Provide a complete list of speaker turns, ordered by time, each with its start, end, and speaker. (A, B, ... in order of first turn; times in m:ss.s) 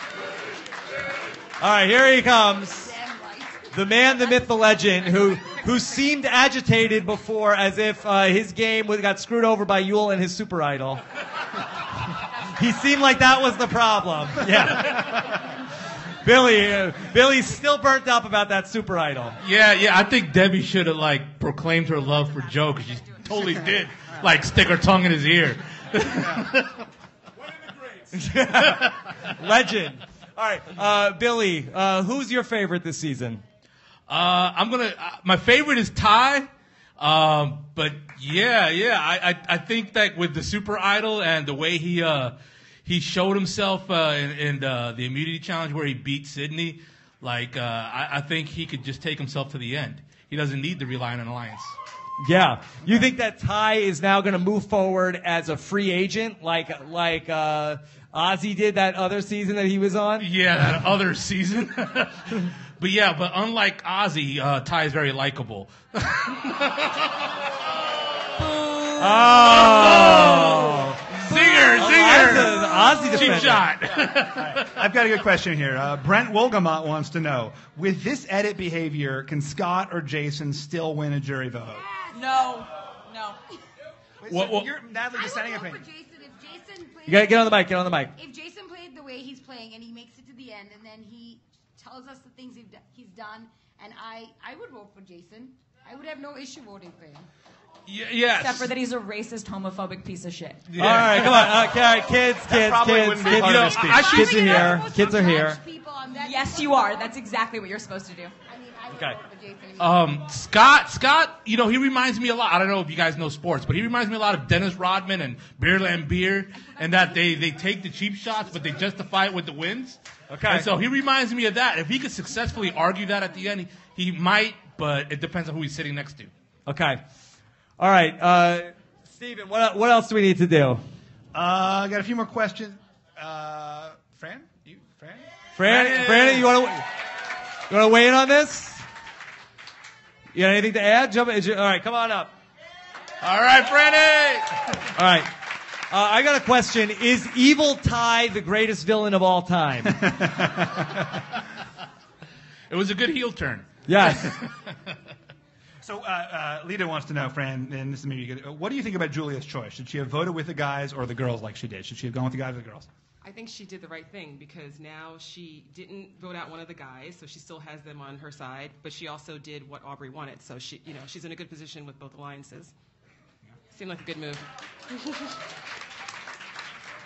0:01.6-0:02.9 A
0:02.8-0:03.7 B
0:03.7-0:11.0 A
0:12.6-0:15.3 A
0:16.2-0:19.4 A
0:19.4-0:26.8 C
0:22.2-0:24.1 D
0:28.1-0:33.4 A
0:34.1-0:51.7 C
0:52.2-1:00.3 A
1:00.2-1:07.0 C
1:09.0-1:13.6 A
1:09.3-1:14.7 C
1:14.1-1:21.8 E
1:21.7-1:22.4 B
1:22.1-1:23.4 D
1:24.2-1:25.8 E
1:24.3-1:24.7 C
1:25.1-1:37.3 B
1:27.1-1:28.1 A
1:37.9-1:38.7 C
1:38.3-1:40.7 D
1:40.7-1:41.7 C
1:40.8-1:45.6 A
1:41.2-1:41.7 E
1:42.5-1:44.3 E
1:43.3-1:44.4 C
1:43.8-1:47.2 B
1:46.1-1:48.3 D
1:48.5-1:50.3 B
1:49.8-2:06.3 C
2:00.3-2:00.7 A
2:06.7-2:07.0 A
2:07.8-2:10.8 A
2:11.3-2:15.3 E
2:15.6-2:16.8 A
2:15.6-2:16.5 C
2:17.7-2:18.8 A
2:20.3-2:22.3 A
2:23.2-2:24.8 C
2:24.9-2:25.4 A
2:25.9-2:30.1 A
2:29.8-2:31.2 E
2:32.7-2:34.3 C
2:33.9-2:34.4 A
2:35.8-2:42.9 E
2:43.2-2:52.7 F
2:53.7-2:55.3 F